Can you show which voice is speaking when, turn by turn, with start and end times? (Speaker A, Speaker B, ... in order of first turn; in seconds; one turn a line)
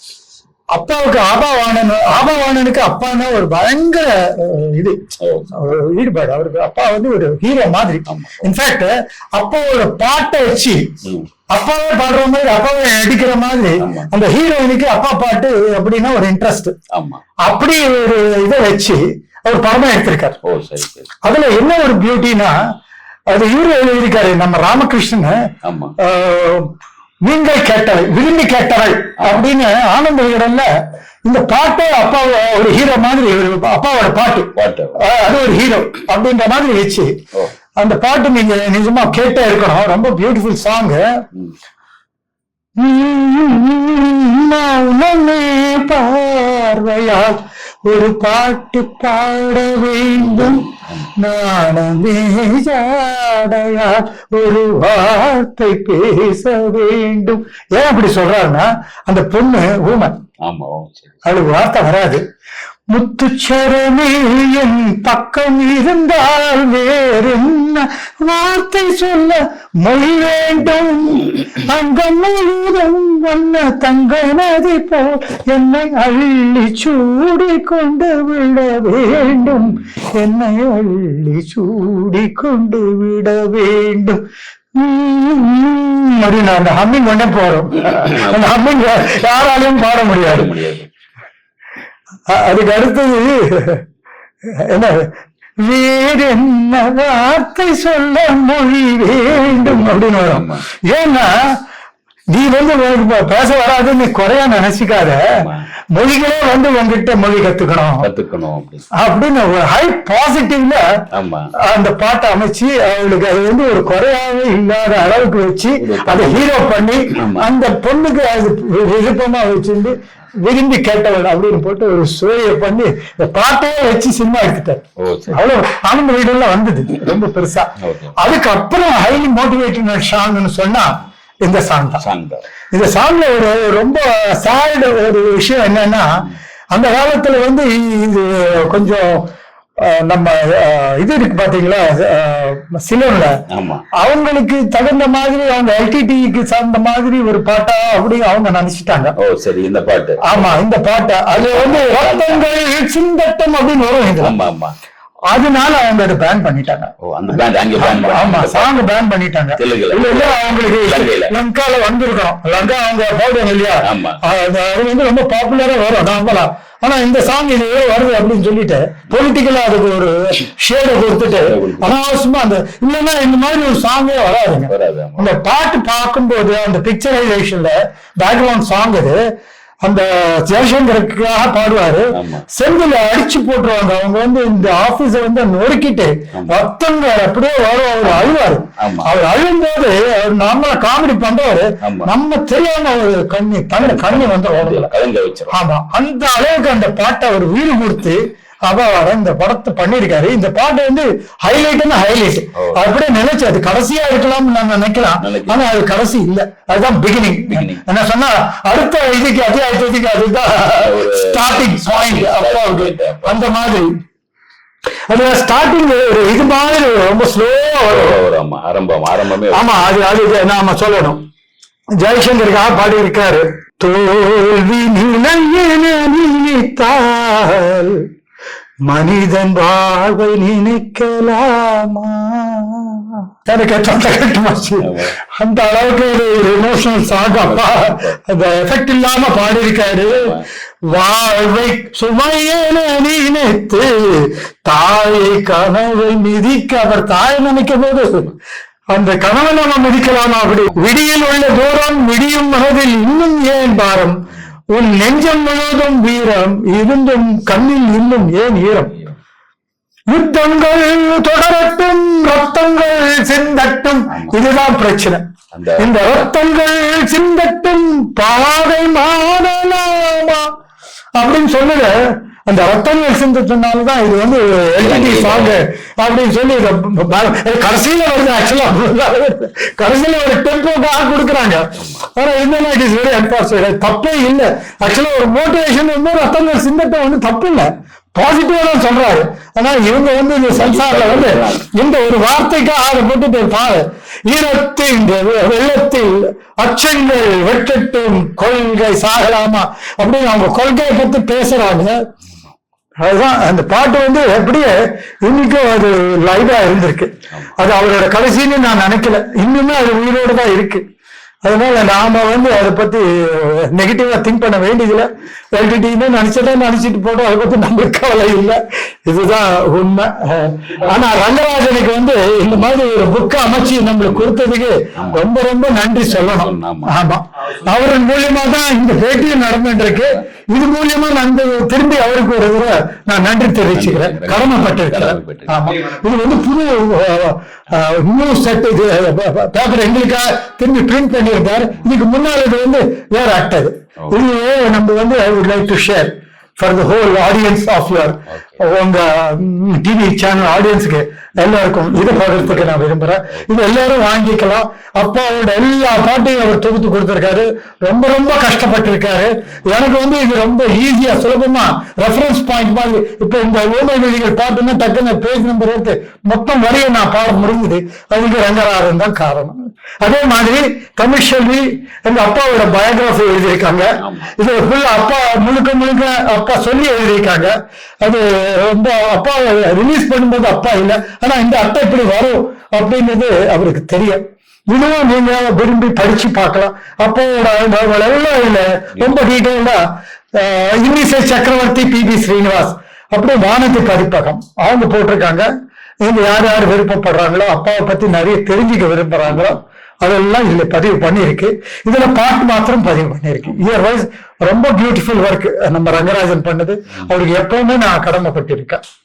Speaker A: 0.7-10.8
Speaker B: 5.2-5.5
Speaker B: 8.1-8.5
Speaker A: 11.5-16.7
Speaker B: 13.8-14.1
Speaker B: 16.9-17.2
Speaker A: 17.4-20.4
Speaker B: 20.4-21.1
Speaker A: 21.2-22.5
Speaker A: 23.3-25.4
Speaker B: 25.6-25.9
Speaker A: 26.0-26.7
Speaker A: 27.2-30.7
Speaker B: 29.2-29.5
Speaker A: 31.2-37.1
Speaker B: 34.5-35.0
Speaker A: 37.8-41.0
Speaker A: 42.8-60.1
Speaker B: 50.3-51.1
Speaker B: 60.4-61.2
Speaker A: 61.2-62.2
Speaker A: 62.9-84.2
Speaker A: 84.8-90.5
Speaker B: 87.9-88.4
Speaker B: 90.2-90.9
Speaker A: 92.3-93.8
Speaker A: 94.6-95.1
Speaker A: 95.6-101.3
Speaker B: 99.3-100.6
Speaker A: 102.3-105.2
Speaker B: 105.3-105.6
Speaker A: 105.9-108.1
Speaker B: 108.0-108.8
Speaker A: 109.0-110.8
Speaker B: 111.1-111.5
Speaker A: 111.7-130.9
Speaker B: 115.8-116.6
Speaker B: 117.1-117.5
Speaker B: 125.0-125.4
Speaker B: 127.8-128.2
Speaker A: 131.4-132.0
Speaker B: 132.0-132.4
Speaker A: 132.7-136.1
Speaker A: 136.7-139.2
Speaker A: 139.8-143.4
Speaker B: 143.5-143.8
Speaker A: 144.0-149.1
Speaker B: 149.2-150.6
Speaker A: 150.2-154.3
Speaker B: 151.3-152.4
Speaker B: 154.2-154.7
Speaker A: 155.3-156.9
Speaker B: 157.0-158.9
Speaker A: 157.8-179.2
Speaker B: 159.6-161.3
Speaker B: 163.8-164.2
Speaker B: 171.3-171.9
Speaker B: 174.7-175.3
Speaker A: 179.8-194.9
Speaker B: 182.1-182.4
Speaker B: 188.0-189.1
Speaker B: 191.8-192.1
Speaker B: 193.8-195.5
Speaker A: 195.5-213.9
Speaker B: 202.6-202.8
Speaker B: 205.2-205.6
Speaker B: 207.5-207.8
Speaker B: 210.8-213.4
Speaker A: 215.1-218.2
Speaker B: 217.8-220.0
Speaker A: 219.5-221.2
Speaker A: 222.0-228.0
Speaker A: 228.9-240.3
Speaker B: 234.8-235.1
Speaker B: 237.1-238.2
Speaker B: 240.1-240.4
Speaker A: 240.9-248.3
Speaker A: 248.9-254.2
Speaker A: 254.7-258.9
Speaker A: 260.1-265.2
Speaker B: 264.1-264.4
Speaker B: 265.5-265.9
Speaker A: 265.8-270.6
Speaker A: 271.1-302.0
Speaker B: 274.8-275.6
Speaker B: 290.5-291.6
Speaker A: 303.0-310.8
Speaker A: 311.4-389.8
Speaker B: 324.9-325.2
Speaker B: 326.1-326.9
Speaker B: 333.7-335.7
Speaker B: 348.3-348.6
Speaker B: 351.9-352.8
Speaker B: 374.0-374.3
Speaker A: 390.4-395.5
Speaker A: 396.0-408.8